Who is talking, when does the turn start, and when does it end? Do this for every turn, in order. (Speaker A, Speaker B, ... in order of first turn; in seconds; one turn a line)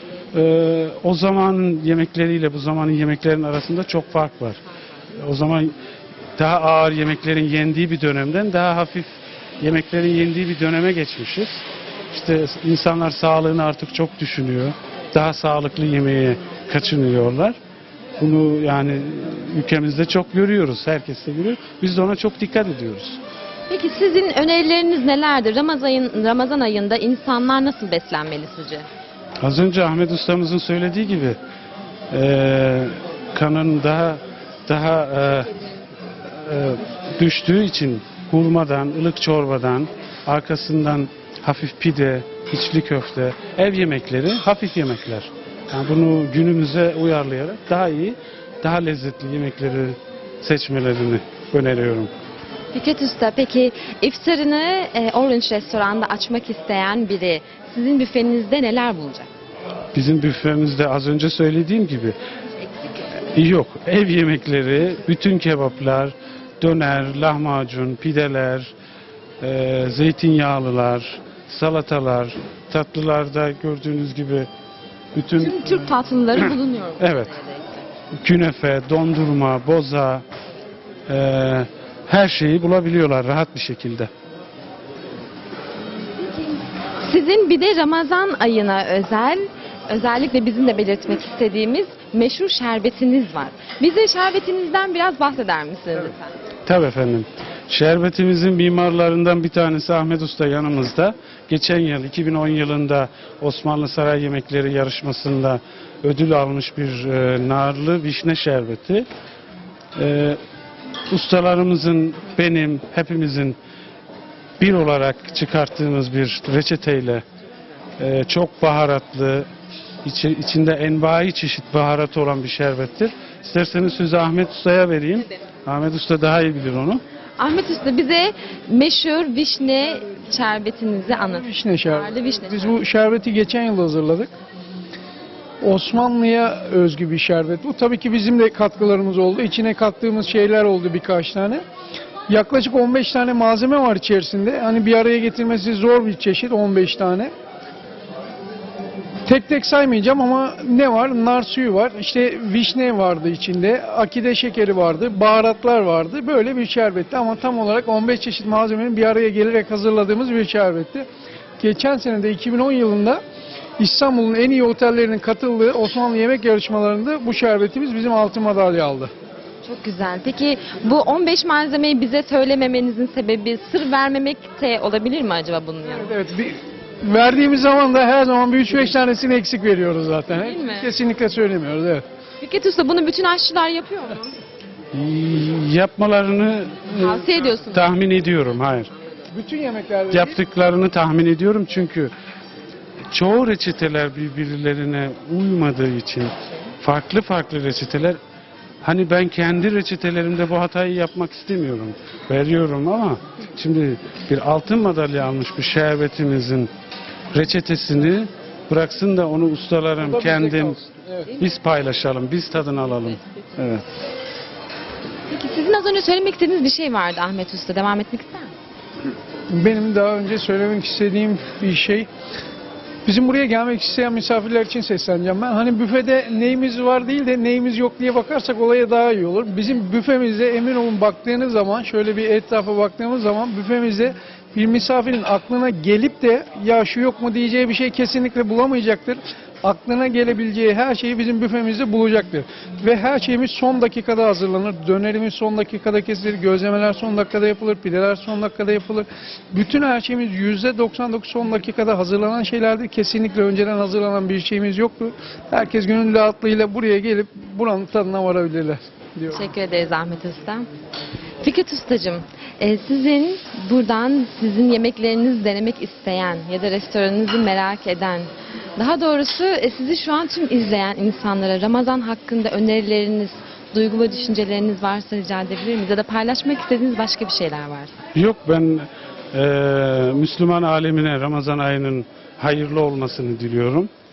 Speaker A: 0.3-5.7
Speaker A: 6.4-17.6
Speaker A: 18.2-23.2
Speaker B: 23.7-28.9
Speaker A: 29.4-31.4
Speaker A: 32.1-35.5
Speaker A: 36.3-52.1
Speaker B: 52.7-59.3
Speaker A: 59.9-62.1
Speaker A: 63.3-68.7
Speaker A: 69.4-74.5
Speaker A: 75.1-76.5
Speaker B: 75.4-77.8
Speaker A: 77.0-77.3
Speaker A: 78.2-80.2
Speaker A: 81.1-84.1
Speaker B: 87.0-96.2
Speaker A: 96.7-109.0
Speaker A: 110.0-110.4
Speaker A: 111.1-113.6
Speaker A: 114.6-117.2
Speaker A: 118.0-119.5
Speaker A: 120.0-127.0
Speaker B: 127.4-132.8
Speaker C: 131.3-134.3
Speaker C: 135.6-141.6
Speaker C: 142.3-147.3
Speaker C: 149.2-161.1
Speaker C: 161.6-163.2
Speaker C: 163.8-169.1
Speaker B: 169.6-176.1
Speaker C: 176.0-182.0
Speaker B: 180.4-180.9
Speaker B: 182.4-184.3
Speaker A: 184.9-188.9
Speaker B: 187.0-187.8
Speaker C: 189.3-190.4
Speaker A: 190.1-192.1
Speaker A: 193.1-198.2
Speaker A: 198.8-206.7
Speaker A: 207.3-213.8
Speaker C: 210.0-211.3
Speaker B: 215.3-218.5
Speaker C: 219.5-222.1
Speaker C: 223.0-259.4
Speaker B: 259.3-260.6
Speaker B: 261.4-277.9
Speaker A: 278.1-283.9